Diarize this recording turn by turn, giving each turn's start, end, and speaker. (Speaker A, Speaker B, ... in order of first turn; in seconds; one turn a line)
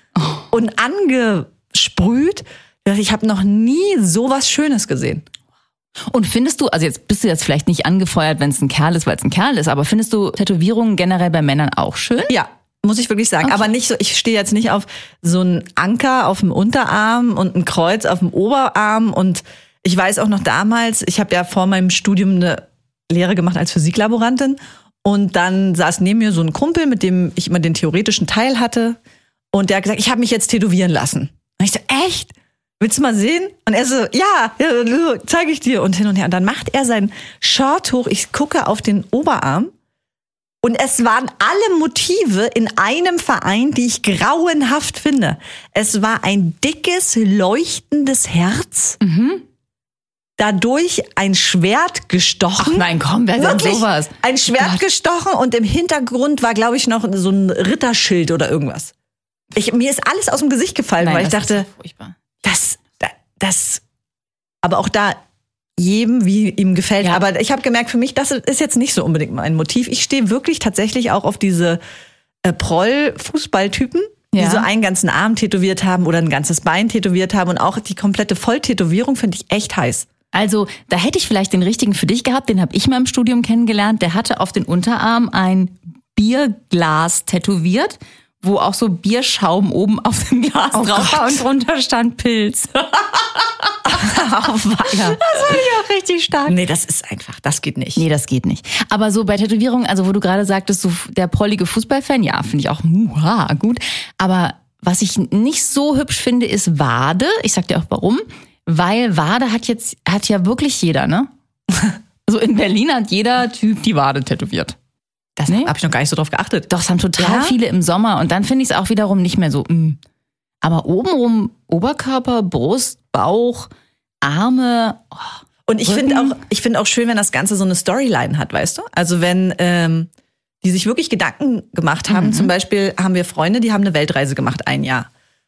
Speaker A: 0.2-0.4
Speaker B: 0.5-5.2
Speaker A: 6.1-12.3
Speaker B: 12.3-29.0
Speaker B: 29.5-39.7
Speaker B: 40.6-49.0
Speaker A: 49.0-49.4
Speaker B: 50.4-58.9
Speaker A: 52.6-54.8
Speaker B: 59.5-61.7
Speaker A: 61.0-62.1
Speaker B: 62.4-63.8
Speaker B: 64.6-65.2
Speaker B: 65.8-71.8
Speaker B: 72.4-80.1
Speaker A: 74.3-74.7
Speaker A: 80.3-94.1
Speaker B: 90.7-91.4
Speaker B: 93.9-95.6
Speaker A: 94.9-96.5
Speaker B: 96.5-98.0
Speaker A: 98.0-111.3
Speaker A: 112.2-114.8
Speaker A: 115.4-115.7
Speaker B: 115.5-117.5
Speaker A: 116.7-120.0
Speaker A: 120.6-123.7
Speaker A: 124.2-126.4
Speaker B: 125.7-130.1
Speaker B: 130.6-135.1
Speaker A: 132.1-132.5